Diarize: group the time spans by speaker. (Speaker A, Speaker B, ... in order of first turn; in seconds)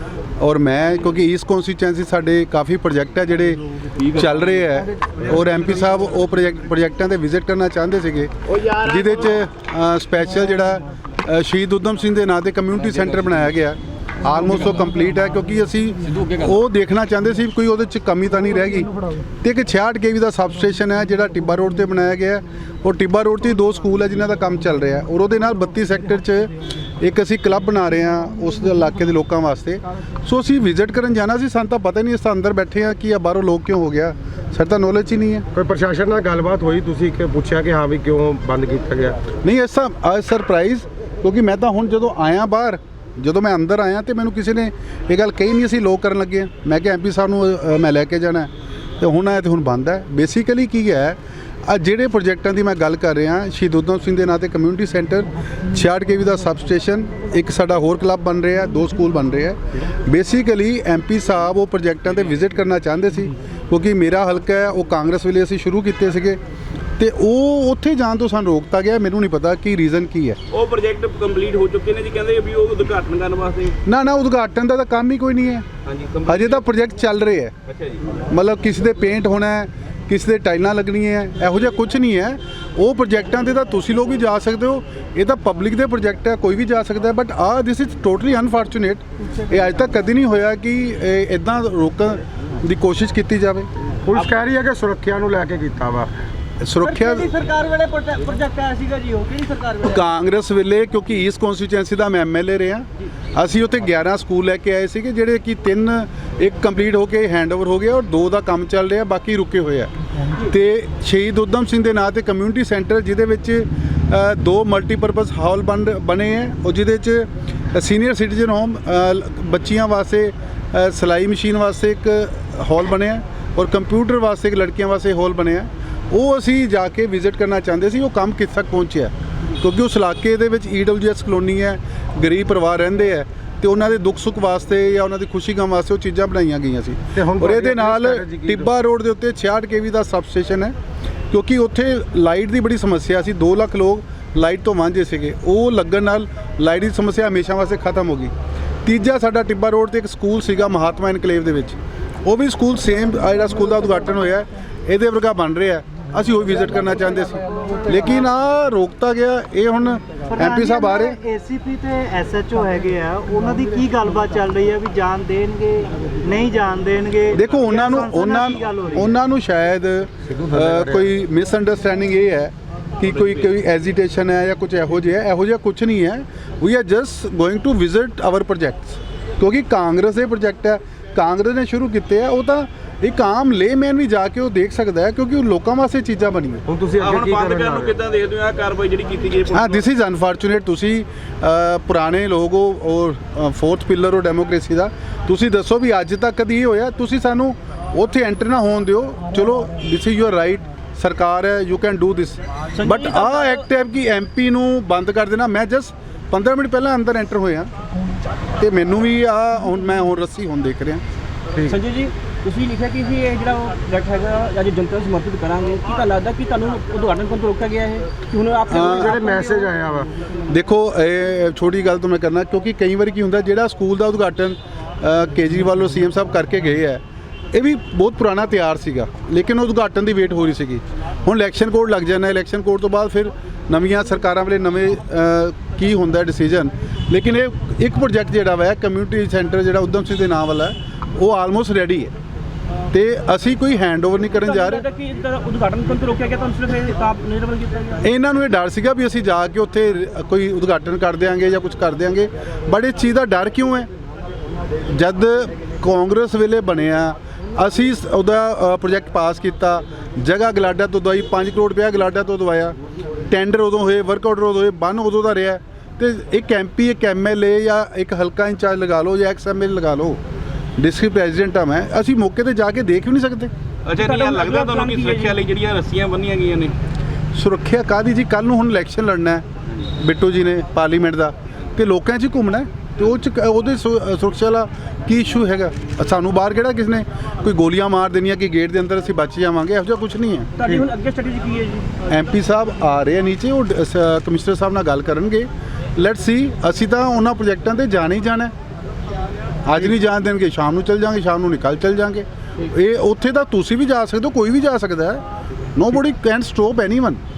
Speaker A: 0.4-35.5, 39.4-66.4, 67.0-70.4, 73.8-75.7, 76.3-77.5, 78.3-93.7, 96.6-97.3, 99.8-140.8, 141.3-148.3, 148.8-161.2, 167.3-186.6, 189.5-207.7, 208.6-211.0, 218.7-219.2, 220.5-227.0, 227.5-242.1, 242.9-244.8, 248.0-253.9, 254.9-262.8, 263.3-270.2, 270.8-273.5, 277.4-279.4, 280.0-290.5, 292.1-298.5, 299.6-305.2, 305.8-307.2
Speaker B: 35.5-39.3, 94.1-96.1, 137.1-138.7, 170.4-171.1, 186.7-188.0, 218.8-220.1
Speaker C: 70.5-73.8, 75.8-76.7, 77.7-78.0, 187.0-189.9, 273.9-276.8
Speaker D: 96.9-99.8, 160.3-169.1
Speaker E: 97.6-98.2, 202.7-203.7, 211.7-219.8, 244.4-248.1, 274.0-275.4, 290.6-291.9